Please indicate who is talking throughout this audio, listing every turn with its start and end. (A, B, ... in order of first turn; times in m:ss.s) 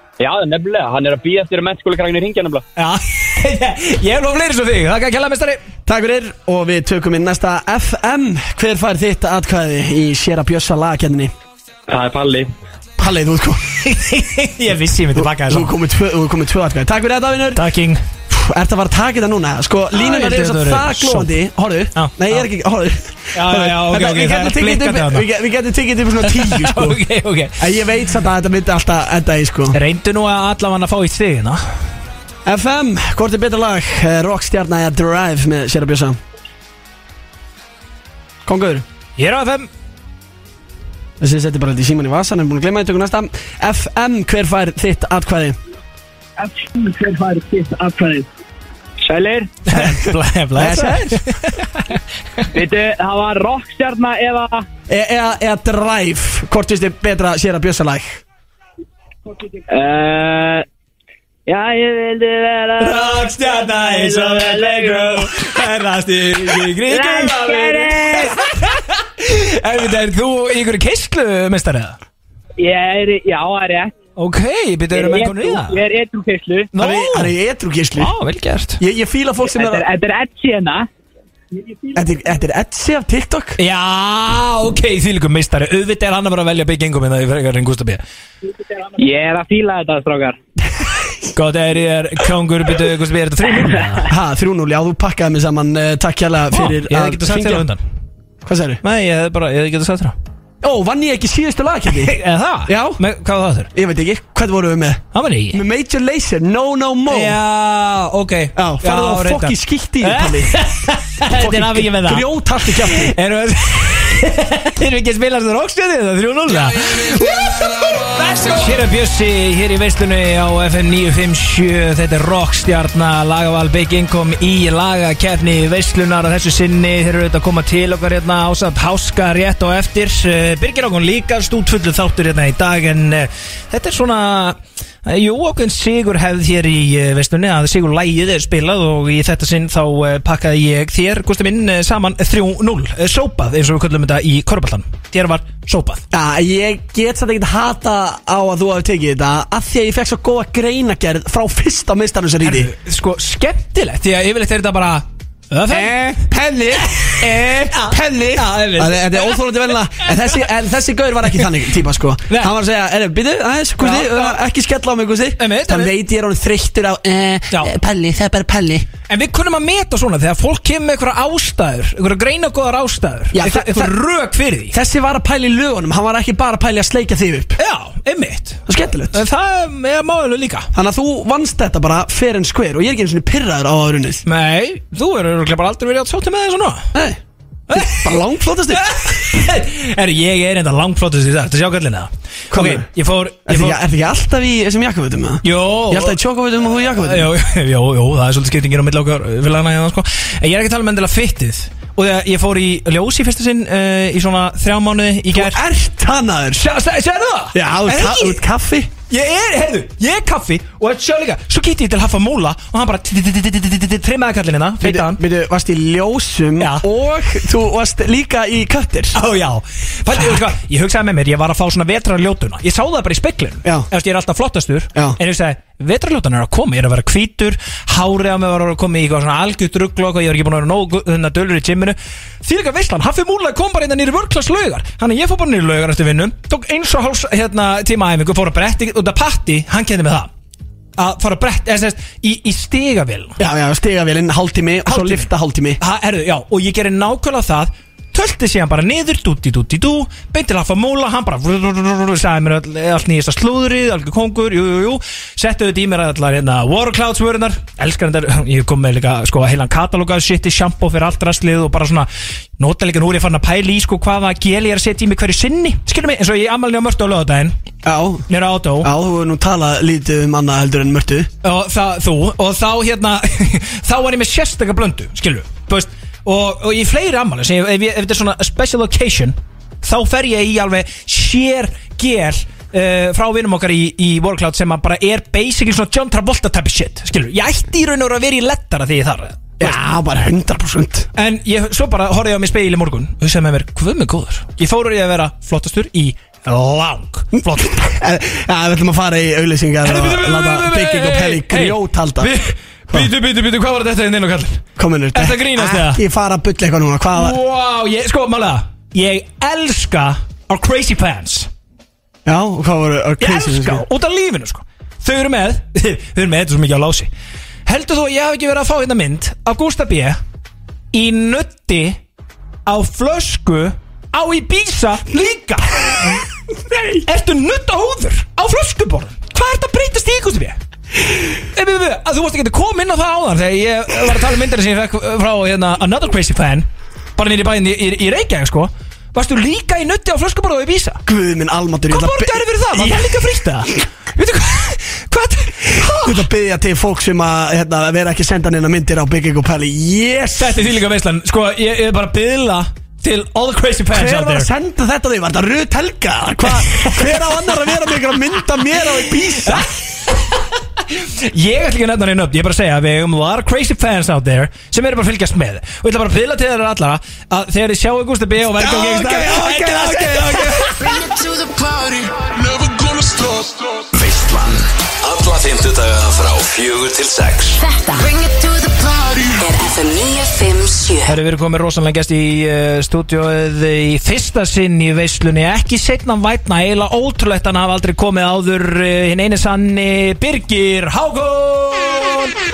0:00.2-0:02.6 A
0:02.8-0:05.6 B
0:05.9-0:11.3 C
0:11.9-0:12.5 A
0:13.0-0:13.6 C
0:13.8-0:15.7 B
0:15.1-0:17.6 C
0:17.5-0:18.0 B
0:18.3-0:27.0 C
0:19.9-0:21.3 B
0:22.0-0:22.4 B
0:23.3-0:25.3 B
0:26.2-0:27.6 B
0:27.6-0:29.8 C
0:29.7-0:31.8 B
0:32.4-0:36.2 C
0:38.4-0:38.8 C
0:39.2-0:39.7 B
0:41.2-0:45.6 C
0:46.4-0:48.3 A
0:49.0-0:49.5 A
0:49.7-0:52.4 B
0:50.6-0:51.2 C
0:52.5-0:54.7 A
0:54.9-0:58.2 C
0:59.7-1:00.6 A
1:01.5-1:05.5 A
1:02.8-1:12.0 B
1:06.8-1:08.4 A
1:12.6-1:14.0 A
1:14.2-1:15.8 B
1:14.9-1:16.7 A
1:16.7-1:17.3 B
1:16.8-1:18.1 C
1:18.0-1:18.8 B
1:18.8-1:19.9 C
1:19.6-1:20.9 A
1:21.9-1:23.6 C
1:23.6-1:28.0 B
1:28.9-1:30.4 A
1:31.3-1:34.1 B
1:34.1-1:37.6 C
1:36.5-1:37.8 B
1:38.4-1:38.8 C
1:38.8-1:40.2 B
1:40.6-1:43.0 C
1:41.9-1:43.7 B
1:43.7-1:47.4 C
1:45.1-1:45.6 B
1:47.1-2:26.0 B
1:48.6-1:50.6 C
1:51.3-1:53.1 C
1:56.5-1:58.8 D
2:26.1-2:32.7 C
2:32.4-2:39.4 B
2:35.7-2:48.9 C
2:43.8-2:44.4 B
2:45.4-2:45.9 B
2:49.1-2:54.8 B
2:53.3-2:54.0 C
2:54.7-2:57.6 C
2:57.6-3:00.7 B
2:58.7-2:59.2 C
3:00.7-3:04.2 C
3:04.3-3:06.9 B
3:06.9-3:07.2 C
3:07.7-3:13.8 B
3:07.7-3:08.9 C
3:12.5-3:12.9 C
3:13.5-3:17.3 C
3:15.4-3:16.2 B
3:17.0-3:25.6 B
3:25.3-3:26.6 C
3:26.6-3:28.4 B
3:27.5-3:28.9 C
3:29.1-3:35.2 B
3:34.8-3:39.2 C
3:36.6-3:36.8 B
3:39.1-4:00.3 B
4:01.0-4:03.4 B
4:03.4-4:05.8 C
4:04.9-4:27.6 B
4:27.8-4:28.3 C
4:28.3-4:28.9 B
4:28.8-4:31.3 C
4:31.4-4:49.8 B
4:49.6-4:51.1 C
4:51.2-4:58.0 B
4:57.3-5:02.3 C
4:59.8-5:06.0 B
5:04.8-5:07.4 C
5:07.1-5:11.5 B
5:12.3-5:13.8 C
5:13.2-5:17.1 B
5:17.7-5:20.2 B
5:20.9-5:22.0 B
5:22.7-5:26.2 B
5:26.7-5:27.0 C
5:27.0-5:30.6 B
5:31.5-5:41.0 B
5:41.1-5:43.5 C
5:41.9-5:46.3 B
5:45.8-5:50.6 C
5:50.4-5:54.5 B
5:53.9-5:59.7 C
5:56.5-5:57.4 B
5:59.3-6:10.8 B
6:08.6-6:10.7 C
6:10.8-6:14.5 D
6:15.1-6:17.5 D
6:17.5-6:21.2 E
6:18.8-6:19.4 D
6:21.0-6:32.3 B